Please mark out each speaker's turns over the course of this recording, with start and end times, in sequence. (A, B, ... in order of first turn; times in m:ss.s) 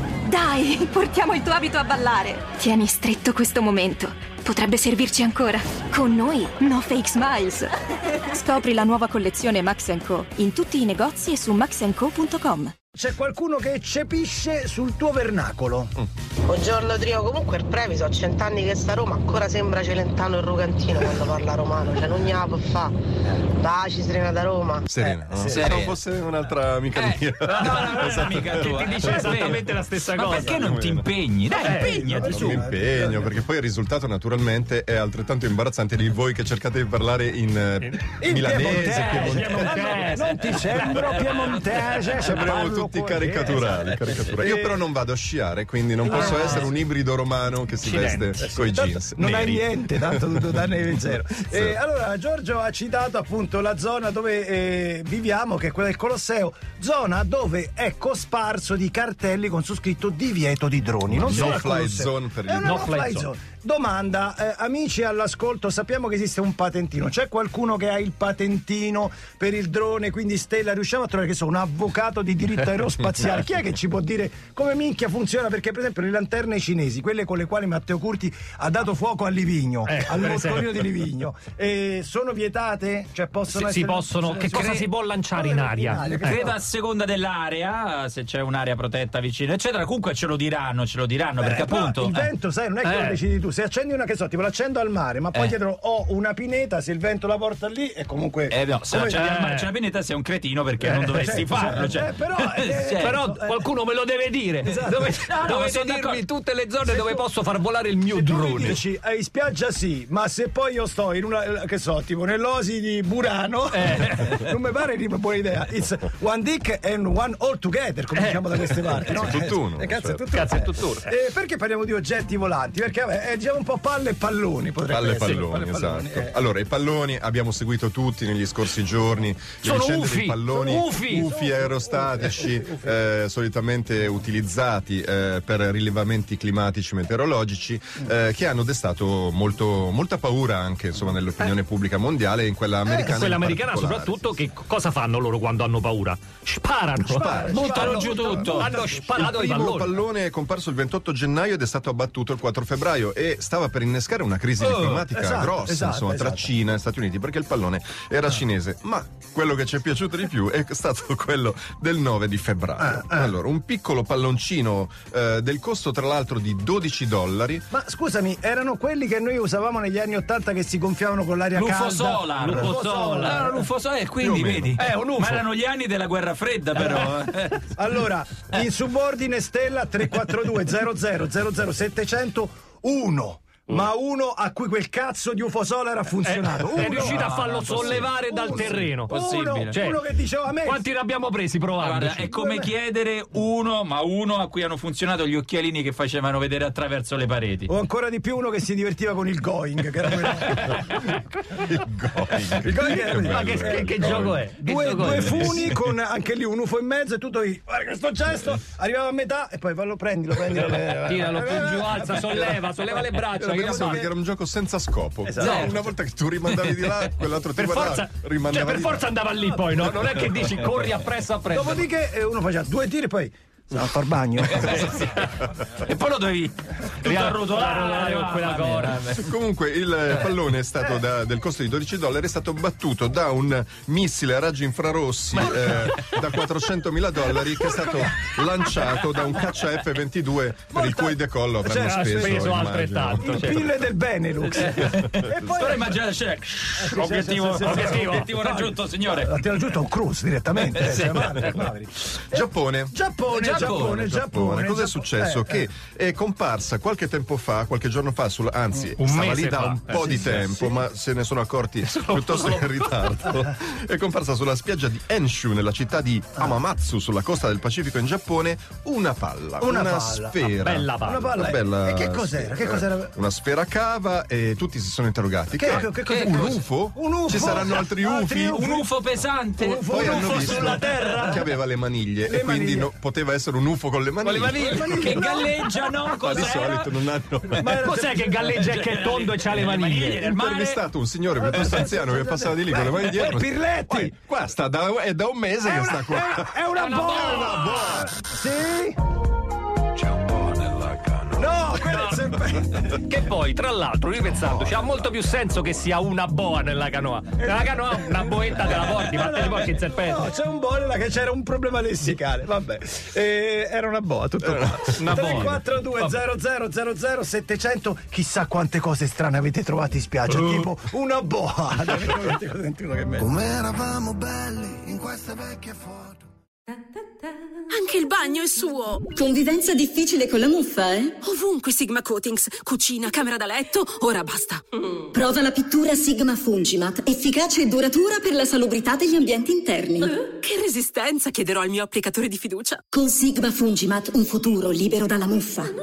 0:00.2-0:12.7 A
0:13.0-0:15.9 B
0:16.5-0:22.9 C
0:23.6-0:24.9 C
0:24.9-0:29.3 D
0:25.3-0:25.8 B
0:25.4-0:26.0 E
0:27.0-0:32.4 E
0:27.6-0:30.7 F
0:30.5-0:31.1 D
0:31.5-0:33.3 B
0:31.5-0:32.6 F
0:32.0-0:39.9 D
0:38.2-0:44.8 B
0:38.9-0:41.2 F
0:40.6-0:42.2 E
0:42.2-0:51.8 D
0:46.0-0:46.7 B
0:46.1-0:46.7 F
0:47.8-0:48.5 F
0:48.4-1:26.6 B
0:49.2-0:49.6 F
1:01.1-1:03.0 D
1:01.2-1:01.7 F
1:02.6-1:03.3 F
1:19.9-1:20.8 F
1:23.5-1:26.4 F
1:24.3-1:24.9 E
1:26.0-1:32.3 E
1:31.4-1:39.2 B
1:32.8-1:33.2 F
1:38.5-1:43.2 E
1:39.2-1:39.8 F
1:40.8-1:41.9 F
1:41.1-1:43.7 B
1:43.0-1:48.8 F
1:44.6-1:45.4 B
1:45.3-1:46.2 E
1:46.8-1:47.2 B
1:48.1-2:06.4 B
1:53.7-1:54.5 F
1:58.1-1:59.1 F
1:58.8-2:00.2 D
2:00.3-2:01.1 F
2:04.9-2:24.2 D
2:09.6-2:11.3 F
2:10.6-2:13.1 B
2:22.9-2:23.2 B
2:23.1-2:30.0 F
2:27.0-2:27.8 D
2:27.0-2:29.2 B
2:27.5-2:28.7 E
2:29.1-2:47.7 D
2:34.6-2:36.5 B
2:42.8-2:43.3 B
2:47.7-2:53.7 B
2:51.5-2:57.7 E
2:52.4-2:53.5 F
2:54.2-2:54.7 D
2:54.8-2:55.4 B
2:56.8-3:10.8 B
3:06.2-3:09.1 F
3:06.7-3:09.8 E
3:09.7-3:10.1 F
3:10.6-3:12.3 F
3:11.8-3:17.7 E
3:12.2-3:12.7 B
3:17.7-3:20.9 B
3:21.5-3:25.6 D
3:22.3-3:34.1 B
3:23.2-3:25.8 F
3:31.0-3:34.1 F
3:33.4-3:39.1 D
3:35.2-3:35.8 B
3:36.6-3:37.0 E
3:37.6-3:41.9 F
3:40.6-3:40.9 E
3:41.5-3:45.1 B
3:44.4-3:49.3 E
3:47.0-3:49.0 F
3:49.2-4:03.7 D
3:55.4-3:55.8 E
4:00.7-4:02.5 B
4:01.8-4:03.6 F
4:03.2-4:06.0 B
4:04.4-4:09.4 E
4:06.8-4:15.6 B
4:07.6-4:08.3 F
4:10.7-4:11.5 E
4:10.8-4:11.5 F
4:12.3-4:13.0 D
4:13.3-4:14.1 E
4:14.0-4:38.6 D
4:19.0-4:20.5 F
4:20.0-4:20.8 B
4:21.9-4:22.9 F
4:29.6-4:30.5 B
4:30.6-4:31.6 F
4:31.0-4:33.1 B
4:35.5-4:38.9 B
4:35.7-4:36.6 E
4:38.5-4:41.1 E
4:39.6-4:41.5 B
4:39.9-4:45.2 D
4:40.3-4:41.3 F
4:42.3-4:42.9 B
4:44.2-4:46.5 B
4:44.5-4:47.0 E
4:46.2-4:47.9 D
4:47.6-4:48.7 B
4:47.6-4:50.2 F
4:48.4-4:50.8 E
4:50.1-4:58.1 D
4:51.4-4:54.2 B
4:55.6-4:59.0 B
4:56.7-4:58.0 F
5:01.3-5:03.0 B
5:01.8-5:10.3 F
5:07.4-5:23.4 B
5:14.5-5:14.8 D
5:15.0-5:16.2 F
5:23.2-5:26.2 G
5:27.7-5:29.1 H
5:29.1-5:31.2 I
5:31.2-5:35.0 H
5:35.1-5:40.1 I
5:40.0-5:42.8 H
5:42.9-5:45.7 I